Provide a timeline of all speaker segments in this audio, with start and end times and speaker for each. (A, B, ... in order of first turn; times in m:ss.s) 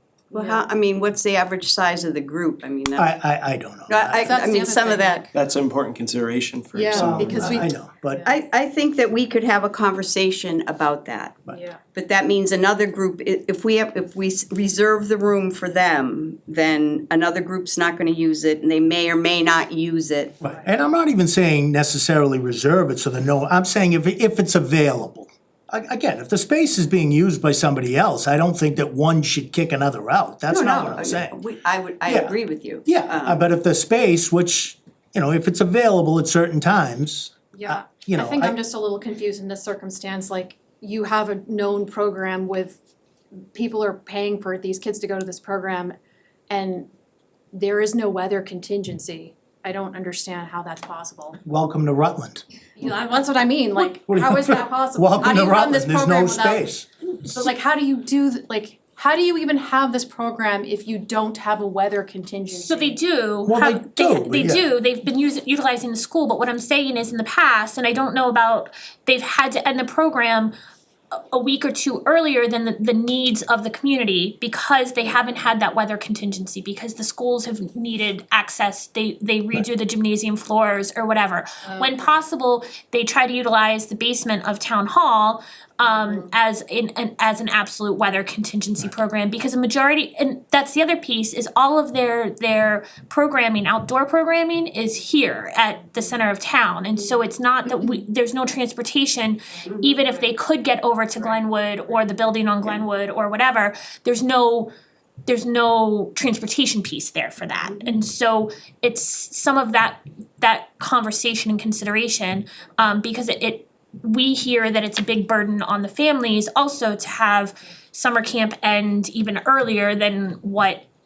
0:00.3-0:03.2 A
0:00.4-0:00.6 B
0:03.0-0:04.3 C
0:03.9-0:05.3 A
0:04.2-0:05.3 B
0:05.3-0:07.7 D
0:06.8-0:08.4 B
0:07.0-0:08.3 C
0:08.2-0:11.4 A
0:11.5-0:11.8 B
0:11.9-0:20.4 A
0:20.4-0:31.4 C
0:30.5-0:33.4 A
0:32.0-0:38.6 C
0:37.5-0:42.8 B
0:43.5-0:46.0 B
0:46.5-0:46.9 B
0:47.5-0:51.4 B
0:51.4-0:52.4 C
0:52.8-0:56.7 B
0:54.0-0:56.9 C
0:57.3-1:03.0 B
1:02.5-1:10.5 E
1:03.4-1:04.6 C
1:11.1-1:44.7 E
1:45.3-2:00.8 E